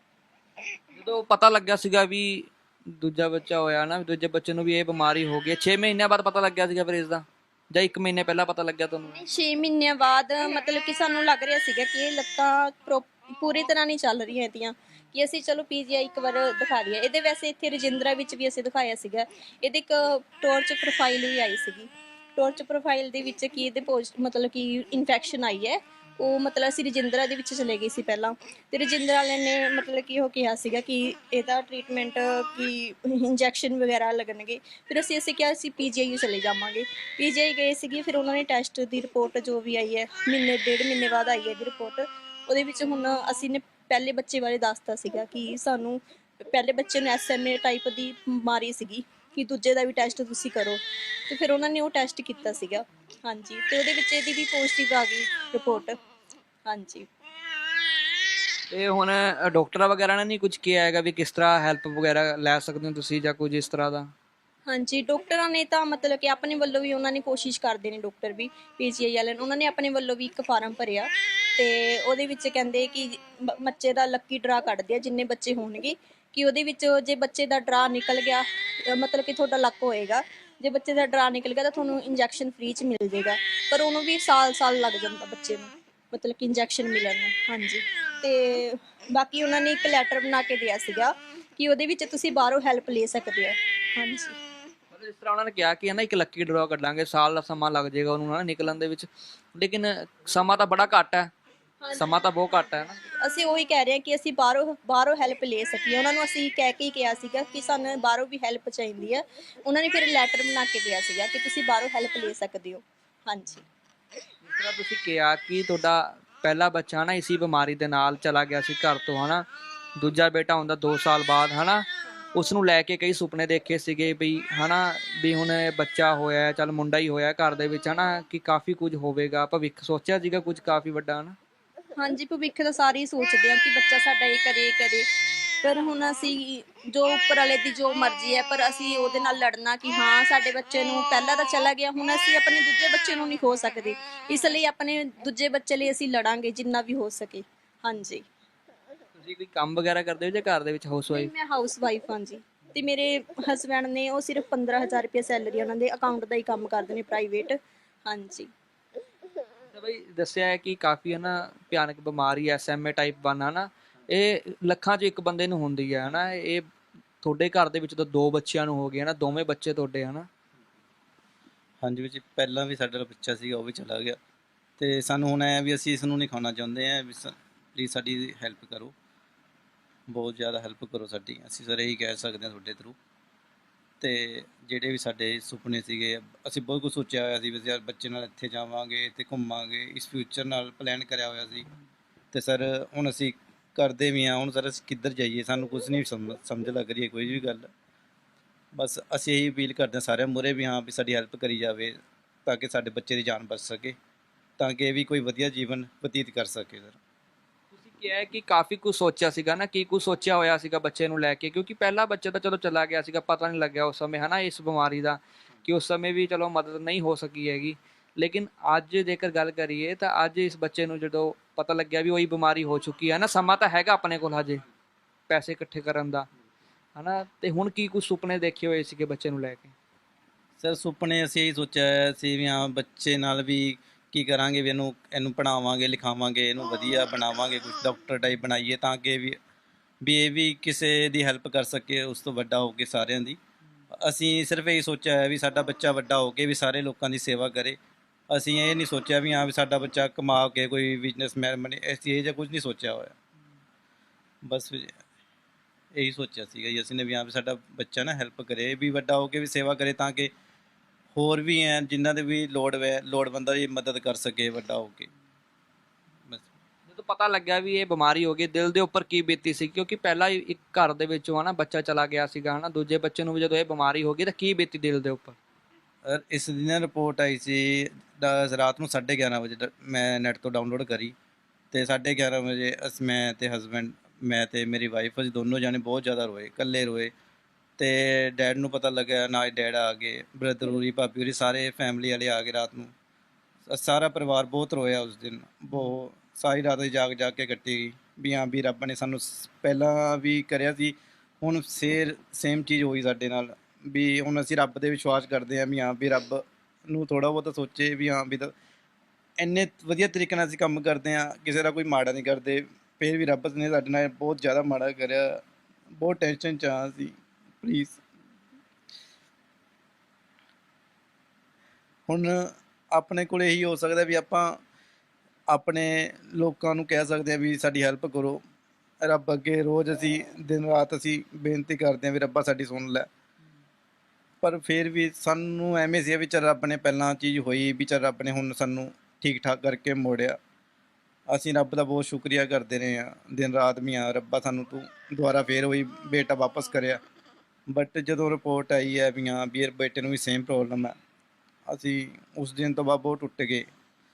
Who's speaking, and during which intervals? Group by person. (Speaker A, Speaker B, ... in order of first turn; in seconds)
Speaker A: 1.0-9.2, 58.7-64.1, 94.9-101.3, 102.0-103.0, 114.4-119.5, 120.0-131.4, 149.2-151.3, 159.7-166.6, 167.2-170.3, 207.7-224.6, 225.3-226.3, 227.0-229.7, 266.9-275.4
Speaker B: 9.2-56.0, 56.7-57.1, 64.7-94.4, 101.8-102.1, 103.2-113.6, 132.0-135.1, 135.6-148.2, 151.1-158.5
Speaker C: 171.8-174.2, 174.8-178.9, 180.1-183.0, 184.0-191.7, 192.3-197.7, 198.8-204.0, 204.6-207.0, 230.6-239.4, 240.0-243.4, 243.9-247.8, 248.3-253.2, 254.5-255.0, 256.0-260.3, 261.1-265.1, 276.1-281.1, 281.7-287.1, 287.8-292.9, 293.7-308.5, 309.4-315.4, 316.0-318.0, 322.1-324.6, 325.5-328.4, 329.0-333.1, 334.4-340.4, 341.3-347.0, 347.7-350.9, 351.7-353.7